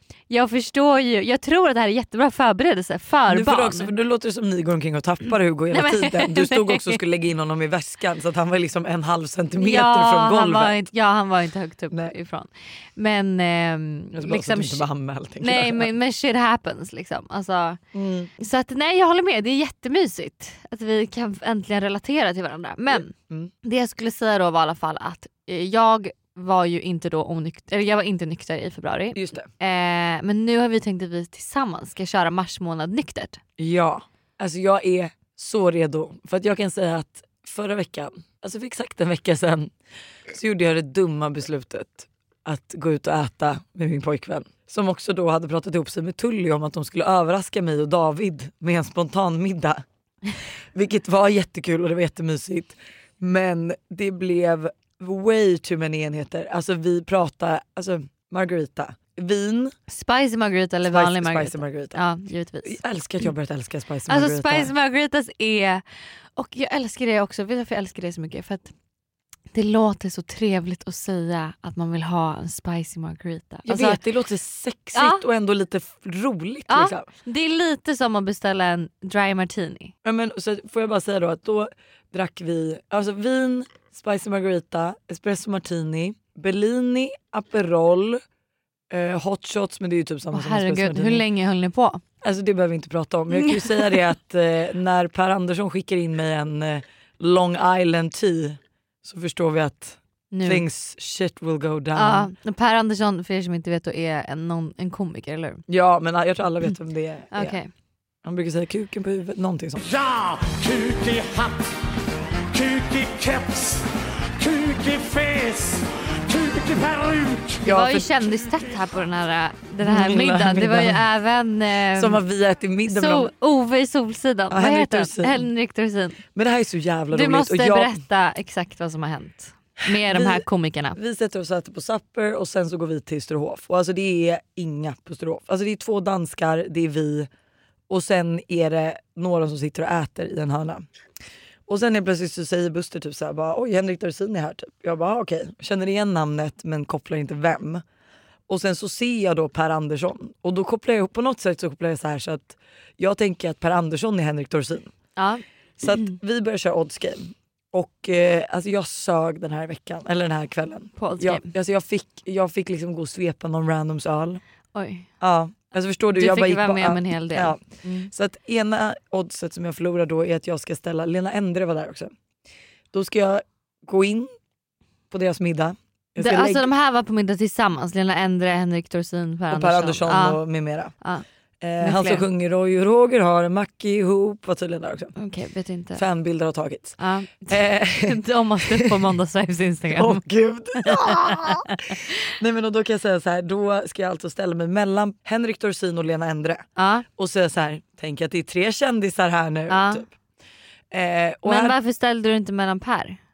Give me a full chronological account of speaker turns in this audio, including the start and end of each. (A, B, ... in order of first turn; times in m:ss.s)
0:00.3-0:03.9 A
0:03.3-0:10.9 B
0:05.7-0:07.0 A
0:09.6-0:14.8 A
0:14.1-0:15.9 B
0:15.4-0:17.8 A
0:17.9-0:18.3 B
0:18.4-0:23.1 A
0:22.9-0:23.5 B
0:23.6-0:33.4 A
0:29.1-0:29.5 B
0:33.6-0:39.7 B
0:40.3-0:49.8 B
0:50.7-0:59.7 B
0:59.9-1:02.8 A
1:00.8-1:02.0 B
1:02.6-1:04.7 B
1:04.1-1:05.8 A
1:06.4-1:08.7 A
1:09.5-1:14.0 A
1:13.6-1:17.1 B
1:14.9-1:15.2 A
1:16.7-1:19.9 A
1:20.0-1:28.2 B
1:28.9-1:31.2 B
1:30.3-1:32.0 A
1:32.2-1:42.3 B
1:33.3-1:34.0 A
1:40.3-1:40.6 A
1:41.9-1:45.6 A
1:45.7-1:47.6 B
1:47.3-1:47.7 A
1:48.2-1:49.9 B
1:49.8-1:51.7 C
1:52.5-1:53.9 C
1:54.4-1:57.8 C
1:57.6-1:58.1 B
1:57.6-2:02.2 A
1:59.8-2:01.0 B
2:01.9-2:03.3 B
2:02.9-2:06.2 A
2:04.5-2:05.5 B
2:06.3-2:08.0 B
2:07.1-2:11.0 A
2:09.8-2:17.3 B
2:17.9-2:20.8 B
2:21.7-2:27.8 B
2:28.5-2:34.9 B
2:35.2-2:35.4 A
2:35.8-2:44.4 B
2:41.0-2:41.5 A
2:44.7-2:45.1 A
2:45.2-2:52.1 B
2:46.1-2:47.6 A
2:52.9-2:54.3 B
2:55.1-2:56.7 B
2:56.2-3:00.4 A
2:59.5-3:00.9 B
3:01.6-3:05.1 B
3:01.8-3:02.2 A
3:05.2-3:06.0 A
3:05.9-3:08.2 B
3:07.0-3:10.2 A
3:09.9-3:20.1 B
3:10.8-3:12.0 A
3:16.8-3:17.0 A
3:19.7-3:20.0 A
3:20.9-3:21.8 B
3:21.4-3:23.2 A